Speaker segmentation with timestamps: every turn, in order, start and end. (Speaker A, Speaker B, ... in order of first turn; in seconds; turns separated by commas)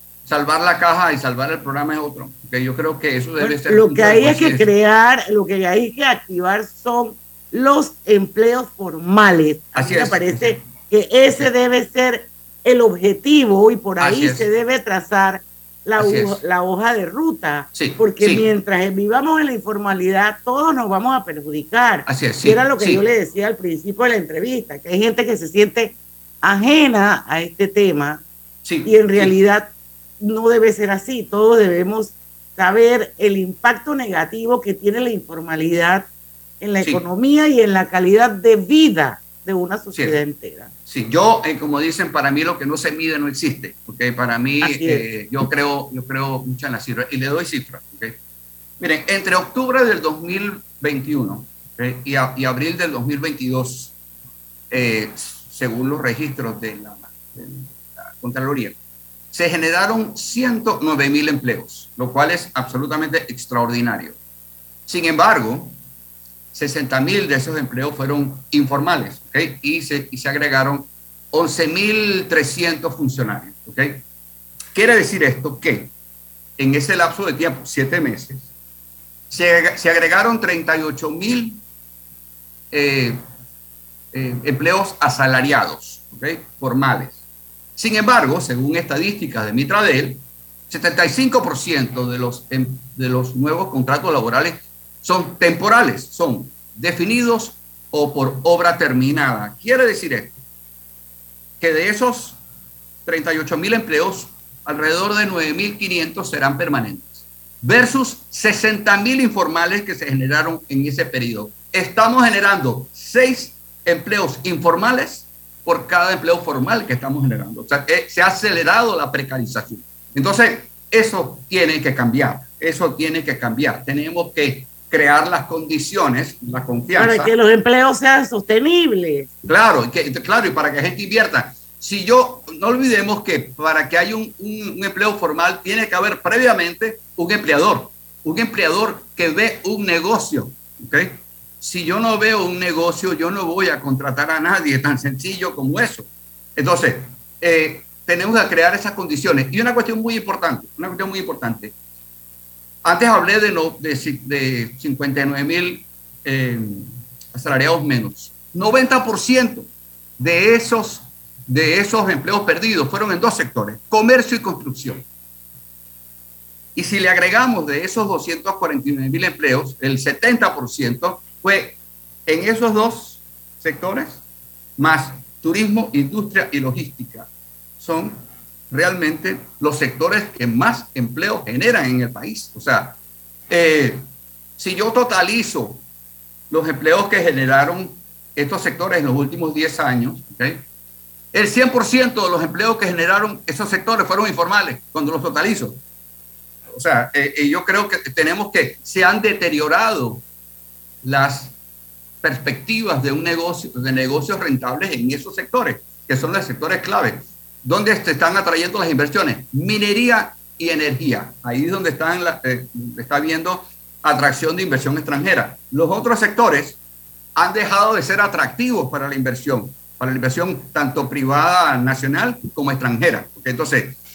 Speaker A: 0.2-4.7, Speaker B: 3.4-28.2, Speaker A: 9.7-10.7, Speaker A: 14.0-14.4, Speaker A: 16.0-16.4, Speaker A: 17.7-18.5, Speaker A: 22.1-23.0, Speaker A: 28.6-29.3, Speaker B: 28.9-36.1, Speaker B: 36.6-40.7, Speaker A: 40.9-48.1, Speaker B: 44.6-45.0, Speaker A: 48.8-53.9, Speaker A: 54.7-58.8, Speaker A: 59.3-64.2, Speaker A: 64.9-65.8, Speaker A: 66.5-74.0, Speaker A: 74.7-75.9, Speaker A: 76.6-78.5, Speaker A: 79.3-81.6, Speaker A: 82.7-83.2, Speaker A: 84.1-87.2, Speaker A: 87.8-100.4, Speaker A: 101.6-102.4, Speaker A: 103.0-127.3, Speaker B: 127.0-129.3, Speaker A: 129.4-151.7, Speaker A: 152.8-159.7, Speaker A: 160.2-165.0, Speaker A: 166.7-174.2, Speaker A: 174.8-177.3, Speaker A: 177.8-178.2, Speaker A: 178.7-183.0, Speaker A: 183.5-184.0, Speaker A: 184.6-185.8, Speaker A: 186.5-190.6, Speaker A: 191.3-195.8, Speaker A: 196.7-200.2, Speaker A: 201.0-201.5, Speaker A: 202.2-216.8, Speaker A: 217.3-224.0